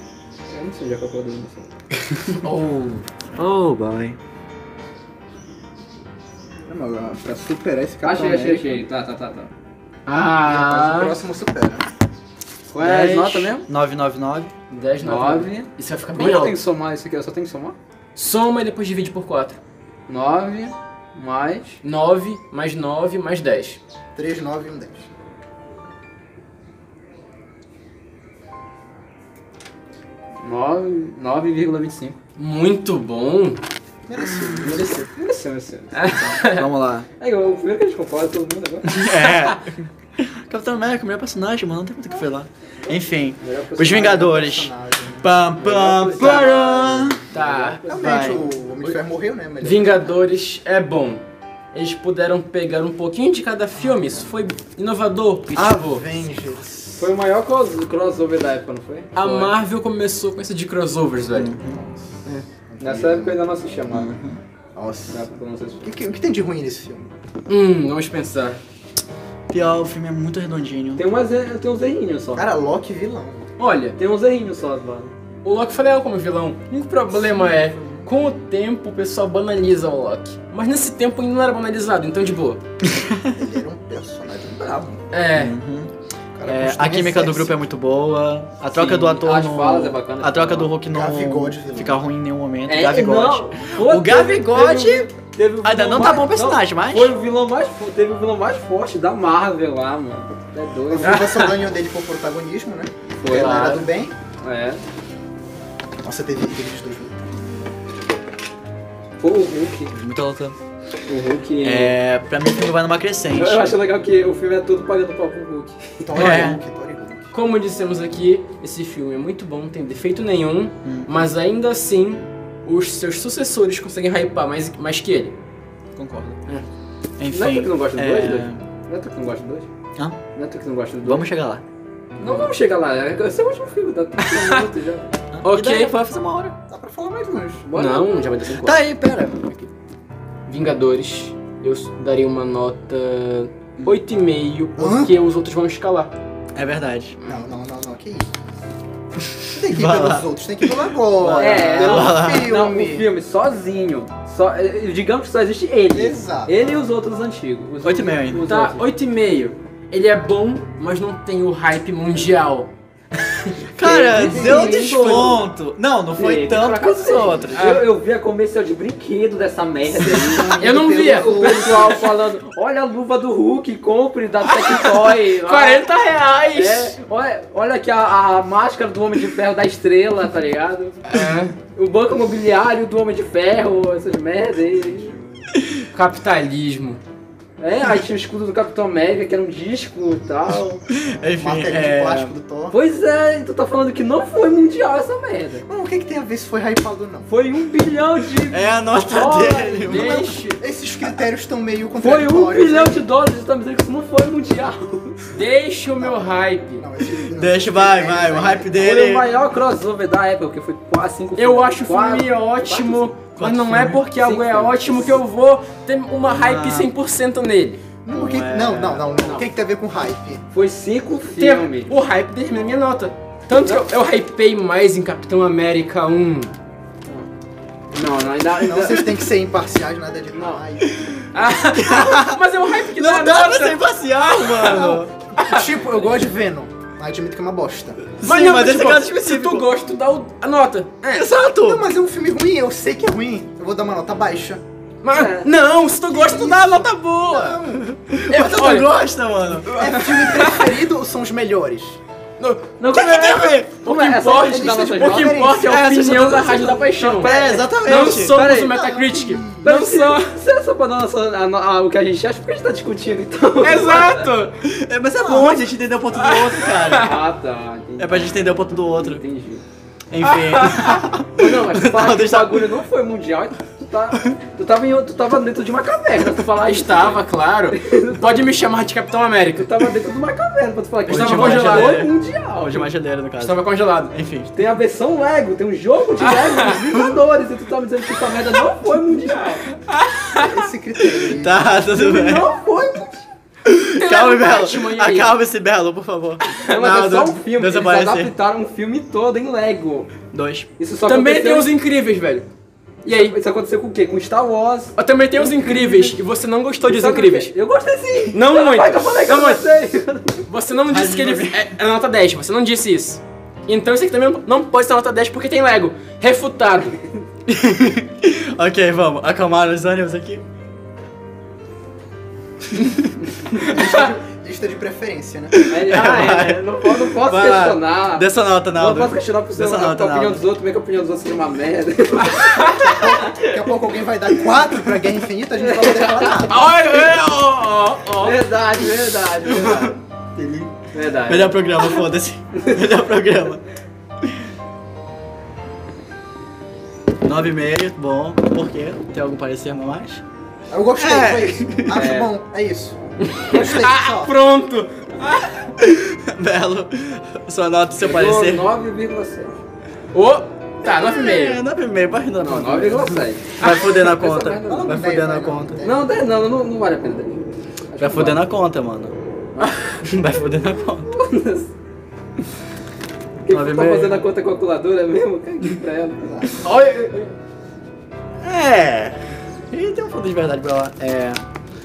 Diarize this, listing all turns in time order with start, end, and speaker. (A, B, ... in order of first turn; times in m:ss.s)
0:00.5-0:01.7 A
0:02.1-0:02.4 B
0:02.3-0:03.0 C
0:03.4-0:04.2 B
0:06.7-0:08.8 D
0:08.0-0:09.5 A
0:10.0-0:11.1 C
0:10.4-0:11.8 D
0:12.7-0:13.6 A
0:12.8-0:14.5 B
0:14.7-0:16.6 C
0:15.0-0:17.8 A
0:18.1-0:19.6 C
0:20.1-0:21.8 A
0:21.8-0:23.8 C
0:24.1-0:25.1 D
0:30.4-0:32.2 A
0:32.4-0:33.6 C
0:34.0-0:34.9 D
0:34.5-0:34.8 B
0:34.6-0:35.0 C
0:35.1-0:36.5 A
0:36.0-0:36.7 C
0:36.3-0:37.1 B
0:37.2-0:39.1 A
0:38.8-0:47.2 B
0:43.4-0:44.2 A
0:43.8-0:45.4 D
0:45.6-0:48.5 A
0:47.3-0:47.8 C
0:47.9-0:50.2 D
0:48.0-0:48.4 B
0:49.6-0:51.2 C
0:51.7-0:56.0 C
0:53.8-0:54.3 D
0:55.5-0:57.1 D
0:57.0-0:59.5 A
0:59.1-1:01.5 C
1:01.3-1:01.8 B
1:01.6-1:02.2 D
1:02.7-1:03.4 D
1:02.8-1:04.1 A
1:03.9-1:04.4 B
1:04.7-1:05.2 D
1:05.1-1:05.9 A
1:05.8-1:07.1 D
1:07.5-1:08.6 C
1:09.5-1:11.0 B
1:11.0-1:12.4 A
1:12.3-1:13.5 D
1:13.6-1:14.0 C
1:14.0-1:15.1 A
1:15.4-1:22.6 C
1:17.1-1:18.1 D
1:22.9-1:23.2 B
1:23.0-1:25.0 D
1:25.1-1:25.6 C
1:25.3-1:25.9 B
1:26.3-1:27.5 D
1:26.4-1:35.1 B
1:28.7-1:30.7 A
1:30.9-1:32.0 D
1:32.7-1:41.5 A
1:35.6-1:37.1 B
1:40.9-1:44.1 D
1:41.0-1:41.5 C
1:43.2-1:43.9 A
1:43.3-1:43.9 C
1:44.4-1:44.8 A
1:46.0-1:47.7 D
1:49.2-1:49.9 A
1:49.9-1:50.6 B
1:51.1-1:52.0 A
1:51.6-1:53.8 B
1:53.3-1:56.0 A
1:56.0-1:57.3 D
1:56.1-1:56.6 B
1:57.3-2:05.3 C
2:00.8-2:01.2 B
2:06.0-2:06.4 B
2:07.2-2:08.6 B
2:07.3-2:09.7 A
2:10.3-2:11.2 A
2:11.0-2:11.6 B
2:12.2-2:15.1 A
2:12.2-2:12.5 C
2:14.3-2:14.6 C
2:15.3-2:16.6 B
2:15.4-2:15.9 C
2:16.7-2:17.6 D
2:17.6-2:18.2 A
2:17.7-2:18.8 C
2:18.6-2:19.5 B
2:20.5-2:26.1 C
2:24.8-2:25.2 D
2:26.5-2:27.2 B
2:27.2-2:28.3 D
2:29.5-2:33.1 D
2:29.6-2:32.5 B
2:31.4-2:38.8 A
2:35.9-2:36.5 D
2:37.8-2:38.5 B
2:38.4-2:42.7 C
2:43.7-2:47.7 B
2:43.8-2:45.4 A
2:44.1-2:45.0 D
2:44.1-2:44.5 C
2:46.2-2:55.9 A
2:47.5-2:47.9 C
2:49.9-2:52.0 D
2:50.3-2:52.0 C
2:54.4-2:57.0 C
2:56.5-3:01.0 A
3:01.1-3:01.6 C
3:01.7-3:05.1 A
3:04.7-3:05.5 D
3:05.9-3:07.0 C
3:07.6-3:10.8 A
3:10.9-3:12.3 B
3:11.4-3:12.8 D
3:12.7-3:15.6 A
3:15.7-3:17.3 D
3:17.3-3:18.7 A
3:18.5-3:20.3 B
3:19.0-3:20.6 C
3:19.8-3:23.0 D
3:22.0-3:25.3 A
3:25.3-3:26.9 C
3:26.0-3:28.8 D
3:27.1-3:29.3 B
3:28.7-3:33.1 A
3:31.4-3:37.8 C
3:33.3-3:34.0 B
3:34.1-3:35.2 A
3:36.3-3:36.9 B
3:38.0-3:40.4 D
3:38.1-3:39.1 B
3:39.1-3:39.4 C
3:40.5-3:42.0 A
3:41.4-3:46.5 C
3:43.6-3:43.9 A
3:47.9-3:49.0 A
3:48.6-3:51.1 D
3:48.7-3:49.2 C
3:51.3-3:55.7 C
3:51.7-3:55.1 B
3:54.6-3:58.1 D
3:58.2-3:59.7 B
3:58.2-4:01.3 C
4:01.1-4:01.8 B
4:01.5-4:04.6 D
4:05.0-4:07.6 C
4:05.1-4:05.5 A
4:06.1-4:07.9 D
4:07.8-4:09.7 B
4:08.3-4:08.9 C
4:09.6-4:12.0 D
4:09.7-4:10.8 C
4:12.4-4:20.4 C
4:12.8-4:18.8 A
4:13.0-4:13.6 B
4:14.4-4:16.4 D
4:15.7-4:18.4 B
4:18.4-4:19.7 D
4:19.6-4:24.3 A
4:23.6-4:24.6 C
4:24.6-4:27.2 B
4:25.2-4:25.6 D
4:26.1-4:27.1 C
4:26.9-4:29.6 A
4:28.0-4:29.2 B
4:30.1-4:32.8 B
4:30.2-4:31.1 C
4:31.3-4:38.5 A
4:36.2-4:39.8 C
4:39.6-4:42.9 A
4:41.1-4:42.1 C
4:41.1-4:44.5 B
4:43.4-4:44.1 C
4:44.5-4:49.7 A
4:46.2-4:46.9 C
4:49.9-4:50.7 C
4:50.4-4:51.7 D
4:51.3-4:52.5 B
4:51.9-4:53.3 A
4:53.6-4:58.3 B
4:54.0-4:55.3 C
4:56.6-5:00.1 A
5:00.3-5:00.7 B
5:00.8-5:01.7 A
5:01.0-5:02.5 C
5:03.0-5:06.2 A
5:03.0-5:03.3 C
5:05.0-5:07.5 C
5:06.8-5:10.4 A
5:08.3-5:09.6 C
5:10.5-5:17.0 C
5:10.9-5:11.6 B
5:17.5-5:20.4 B
5:22.8-5:23.1 B
5:23.6-5:25.6 D
5:25.5-5:30.4 B
5:25.7-5:32.8 A
5:32.3-5:33.6 C
5:32.6-5:36.7 D
5:35.6-5:36.7 A
5:36.5-5:38.5 C
5:38.2-5:40.0 A
5:39.4-5:40.7 B
5:40.9-5:41.9 A
5:41.2-5:43.6 B
5:42.6-5:42.8 A
5:47.2-5:50.2 B
5:50.7-5:54.5 D
5:50.9-5:52.2 B
5:51.9-5:52.3 A
5:53.2-5:55.7 C
5:55.8-5:58.7 B
5:58.0-5:59.6 A
6:00.1-6:01.6 C
6:00.8-6:05.8 B
6:02.4-6:05.0 A
6:04.6-6:06.1 D
6:05.8-6:08.5 A
6:08.0-6:09.1 B
6:10.0-6:11.1 B
6:11.1-6:11.7 A
6:13.4-6:16.5 A
6:13.5-6:14.2 B
6:16.2-6:16.6 D
6:16.6-6:17.3 C
6:18.4-6:21.4 B